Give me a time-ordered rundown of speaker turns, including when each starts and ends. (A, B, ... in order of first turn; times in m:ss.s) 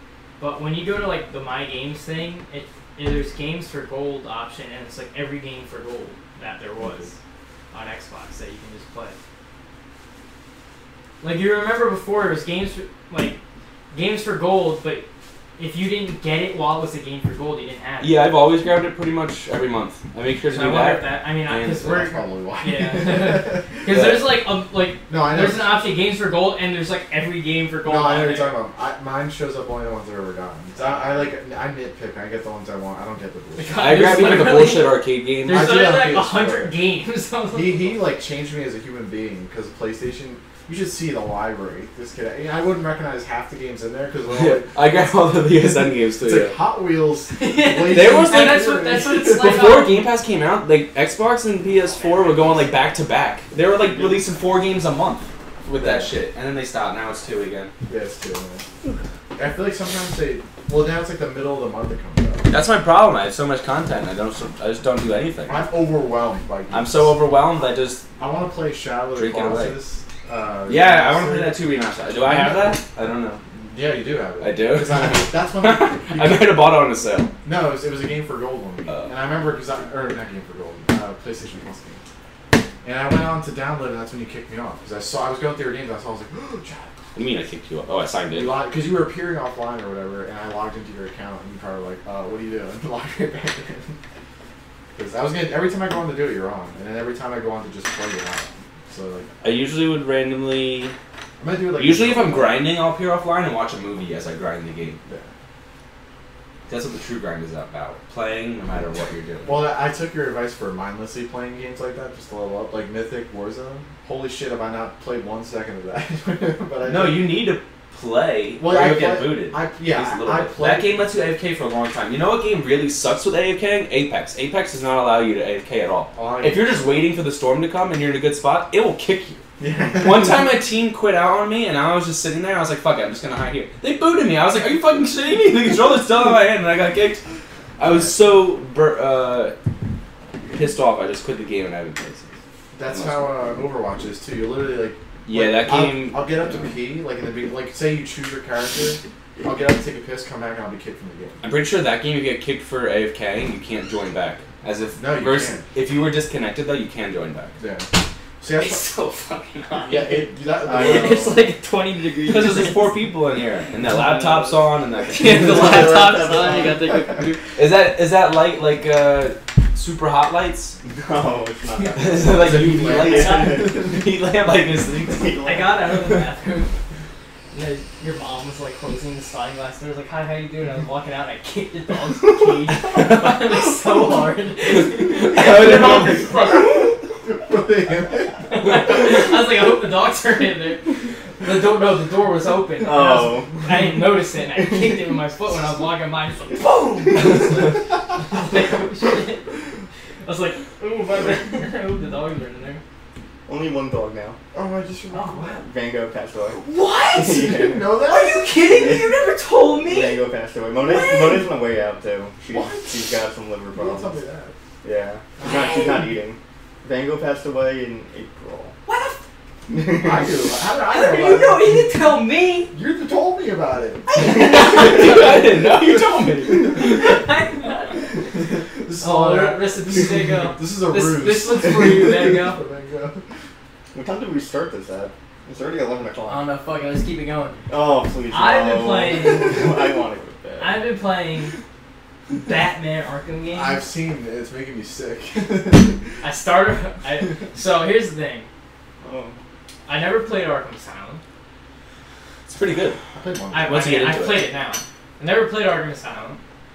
0:00.4-0:07.1 A
0:06.8-0:07.1 B
0:07.7-0:09.2 A
0:11.2-0:13.4 A
0:13.9-0:15.0 A
0:15.6-0:18.2 A
0:18.0-0:22.0 C
0:20.5-0:28.5 A
0:21.7-0:23.8 B
0:23.9-0:24.2 C
0:25.1-0:25.8 B
0:27.8-0:34.4 B
0:30.8-0:31.2 A
0:33.6-0:38.1 A
0:33.8-0:35.8 C
0:35.5-0:36.8 B
0:37.5-0:49.5 B
0:44.3-0:46.6 C
0:47.3-0:50.1 A
0:47.9-0:57.7 C
0:51.8-0:52.8 A
0:55.7-0:56.1 B
0:57.9-0:58.6 B
0:59.4-1:02.5 B
1:02.5-1:05.6 C
1:05.4-1:07.2 B
1:06.7-1:08.0 C
1:08.2-1:11.6 B
1:09.1-1:09.8 C
1:10.7-1:13.4 C
1:12.2-1:12.8 B
1:13.5-1:16.6 B
1:14.4-1:17.3 C
1:17.4-1:22.0 B
1:18.9-1:19.1 C
1:22.8-1:27.0 B
1:27.1-1:28.6 C
1:28.3-1:34.0 B
1:35.0-1:39.3 B
1:39.4-1:40.9 C
1:41.4-1:42.6 B
1:41.8-1:45.0 C
1:45.0-1:45.3 B
1:46.7-1:49.6 C
1:49.4-1:57.3 B
1:56.8-2:09.4 C
1:58.6-2:01.0 B
2:06.1-2:06.8 B
2:09.6-2:10.5 B
2:10.0-2:17.2 C
2:17.8-2:19.5 C
2:20.5-2:22.4 C
2:22.7-2:31.4 B
2:22.9-2:23.3 C
2:25.2-2:26.5 C
2:31.4-2:37.6 C
2:35.0-2:35.7 B
2:37.6-2:38.8 B
2:38.5-2:42.9 A
2:39.8-2:41.4 B
2:40.6-2:41.4 D
2:42.2-2:46.2 C
2:43.8-2:47.4 A
2:45.2-2:47.4 D
2:47.6-2:50.8 C
2:50.8-2:53.8 D
2:51.9-2:55.3 C
2:52.3-2:54.0 B
2:55.0-2:56.0 D
2:55.4-2:56.7 A
2:57.5-3:06.9 A
3:02.9-3:03.4 C
3:05.2-3:06.1 C
3:05.3-3:08.5 B
3:08.4-3:19.4 A
3:12.8-3:13.6 D
3:17.1-3:17.4 D
3:17.4-3:17.7 B
3:20.2-3:22.8 A
3:23.4-3:24.4 D
3:24.5-3:25.6 B
3:25.1-3:25.6 A
3:25.6-3:27.9 D
3:26.5-3:30.2 A
3:27.1-3:28.6 B
3:28.6-3:29.2 D
3:29.8-3:34.2 D
3:30.8-3:31.5 A
3:32.5-3:32.9 B
3:33.7-3:34.5 B
3:34.8-3:38.8 D
3:35.4-3:36.1 A
3:38.8-3:39.2 A
3:39.7-3:40.3 D
3:40.0-3:41.8 B
3:40.8-3:42.7 A
3:42.7-3:44.1 B
3:44.1-3:45.4 A
3:44.2-3:47.0 C
3:46.6-3:48.2 A
3:48.4-3:53.2 B
3:49.0-3:52.6 A
3:53.9-3:56.5 D
3:56.3-3:57.6 A
3:57.7-4:00.8 D
3:58.3-3:59.7 A
4:00.6-4:01.5 A
4:02.3-4:03.8 A
4:03.5-4:06.1 B
4:06.2-4:08.5 A
4:09.0-4:09.4 D
4:09.8-4:11.2 A
4:12.5-4:13.0 C
4:13.2-4:13.9 B
4:13.5-4:16.4 A
4:13.6-4:14.5 C